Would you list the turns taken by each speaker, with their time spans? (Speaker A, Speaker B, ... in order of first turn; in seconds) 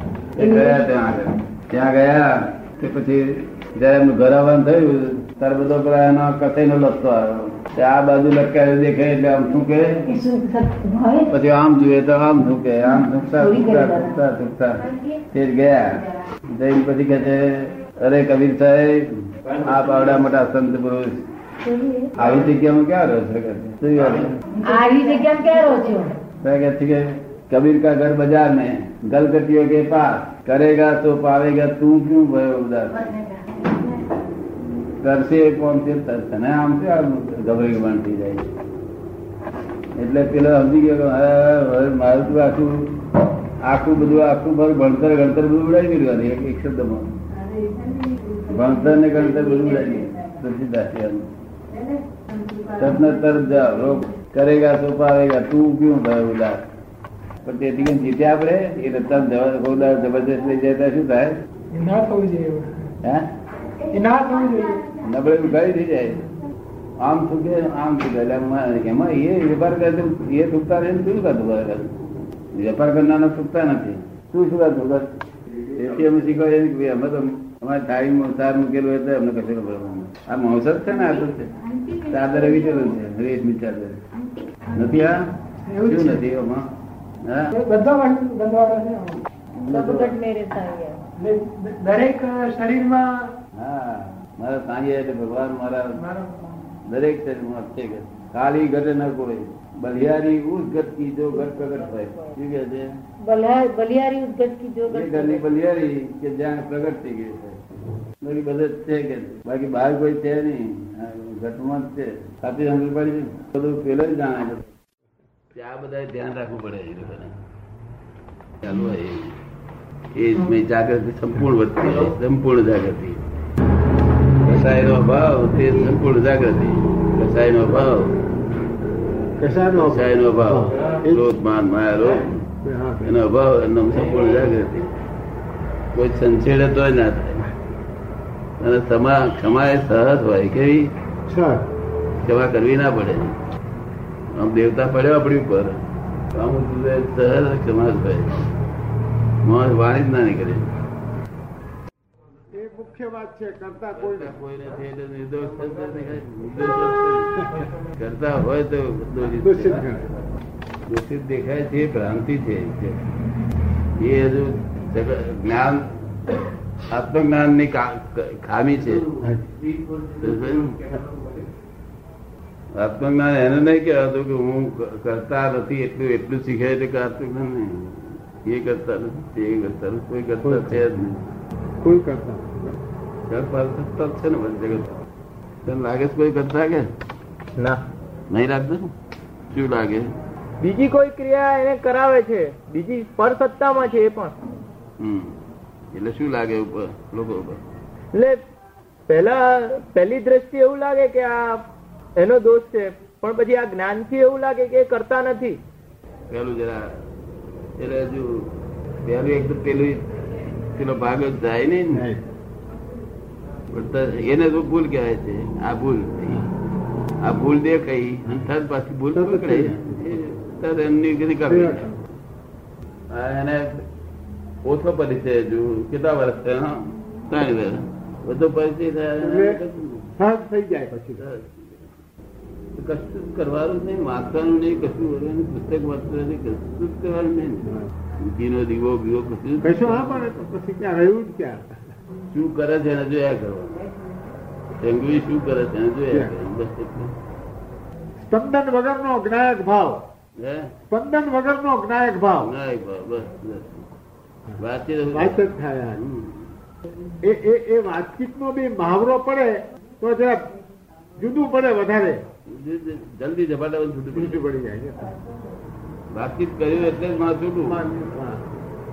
Speaker A: 0.3-10.1, 11.3-21.3, 22.1-24.4, 26.4-33.1, 35.0-38.5, 40.0-43.1, 43.6-47.2, 48.4-51.3, 52.6-56.6, 57.4-61.4, 64.9-66.3, 67.0-72.0, 72.5-75.1, 75.7-84.0, 84.7-86.7, 87.2-87.5, 89.5-90.2, 93.5-96.0, 96.8-102.9, 104.9-107.6, 108.2-114.7, 115.5-117.3, 118.6-119.4, 120.1-123.2, 124.4-128.2, 129.7-132.5, 133.0-134.9, 135.9-137.5, 138.6-140.9, 142.2-143.4, 144.3-145.8, 146.3-148.5, 149.4-150.7, 153.9-159.9, 160.9-163.0, 164.0-165.8, 166.9-169.1, 170.1-170.9, 172.8-181.3, 183.3-185.0, 185.6-186.9, 188.3-188.9, 189.5-190.1, 195.0-195.4, 195.9-197.6, 206.3-207.0, 207.8-210.1, 210.7-212.1, 213.7-216.5, 217.2-221.8, 223.1-223.8, 224.7-230.1, 231.2-231.8, 232.8-240.2, 242.3-243.8, 244.8-247.1, 250.4-250.7, 252.4-253.9, 254.6-256.5, 262.5-264.4, 266.1-268.1
Speaker B: 0.4-0.8, 10.1-11.3, 13.3-14.1, 21.6-22.3, 24.6-26.2, 47.9-48.3, 89.7-91.0, 101.4-102.4, 103.2-105.4
Speaker C: 61.7-62.7, 63.9-64.9, 85.7-86.2, 87.5-89.2, 91.2-93.3, 96.0-96.6
Speaker D: 129.4-131.3, 132.6-133.2, 141.3-141.7, 152.5-154.4, 159.4-160.1, 169.2-169.5, 180.4-180.8, 181.8-182.8, 211.9-212.2, 219.2-220.1, 221.4-222.0, 229.2-229.6, 230.2-231.2, 239.6-241.7, 248.2-250.0, 250.9-252.5, 255.1-256.0, 257.2-260.5, 261.2-262.2, 264.1-265.1, 267.9-268.4
Speaker E: 187.6-187.8, 190.6-194.3, 198.1-198.4, 199.1-201.7, 202.2-205.6